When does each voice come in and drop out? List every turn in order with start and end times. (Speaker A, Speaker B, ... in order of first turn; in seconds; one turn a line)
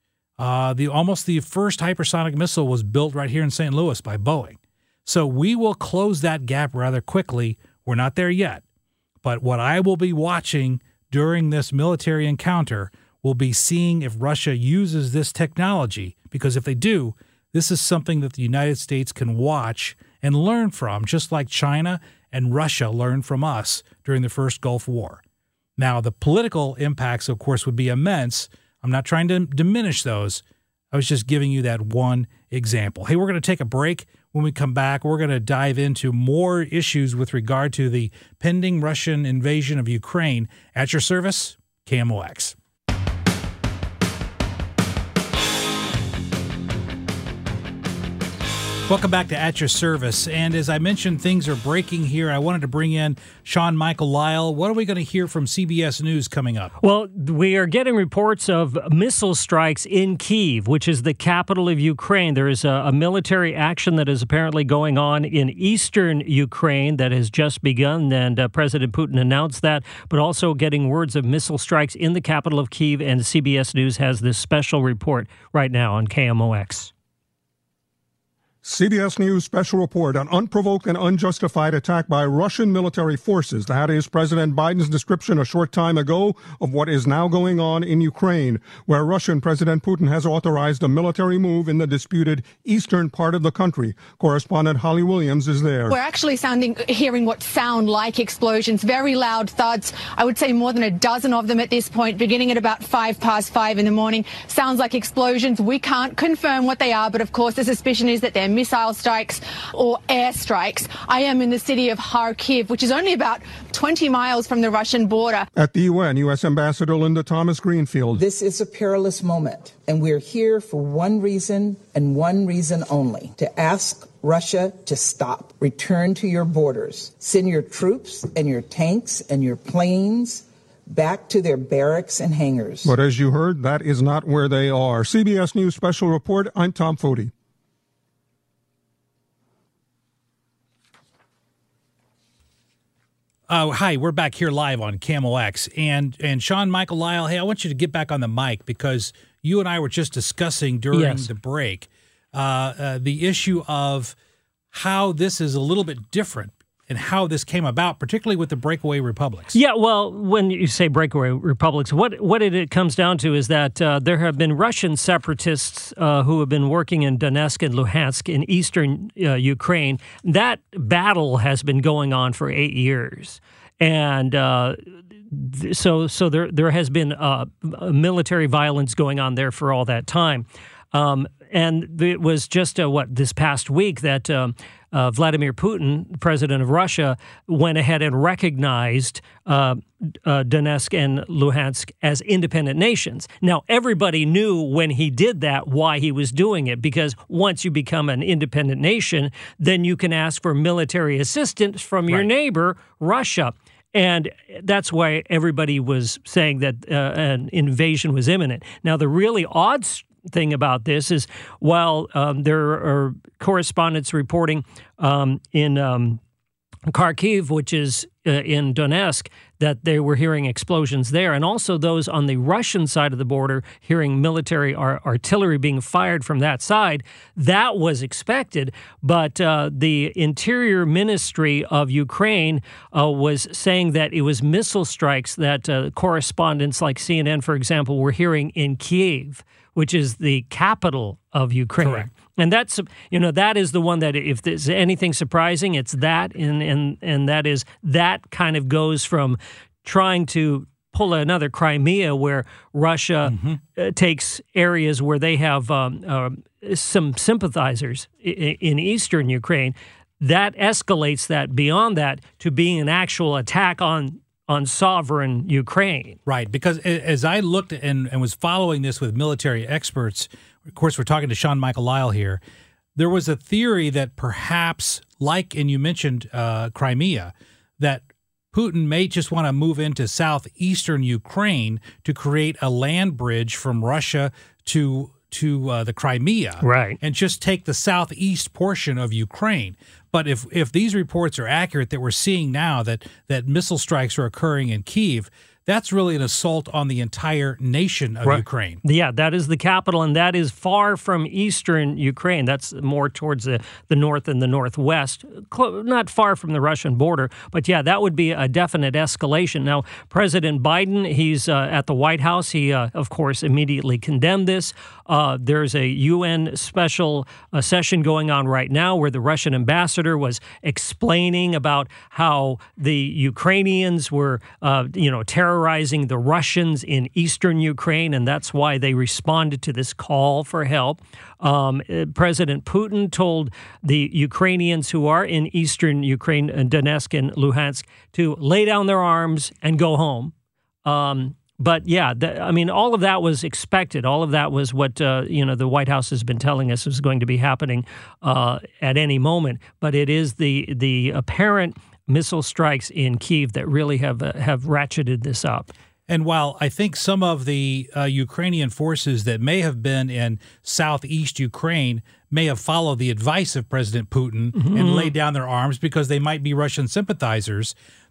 Speaker A: 0.4-8.6
Speaker A: 9.2-25.2
Speaker A: 25.8-42.5
Speaker A: 48.9-56.7
Speaker B: 56.8-76.9
Speaker C: 78.6-95.9
Speaker D: 95.9-115.4
Speaker C: 115.5-118.2
Speaker E: 118.2-132.9
Speaker C: 132.8-137.3
Speaker A: 143.5-154.2
Speaker B: 150.9-151.3
Speaker A: 154.7-159.6
Speaker B: 159.5-216.2
Speaker B: 216.9-266.2
Speaker A: 241.8-242.1
Speaker A: 253.2-253.6
Speaker A: 266.3-272.4
Speaker A: 272.9-298.8
Speaker B: 286.6-287.0
Speaker B: 298.2-340.3
Speaker B: 340.8-355.7
Speaker A: 356.1-367.7
Speaker B: 364.5-365.1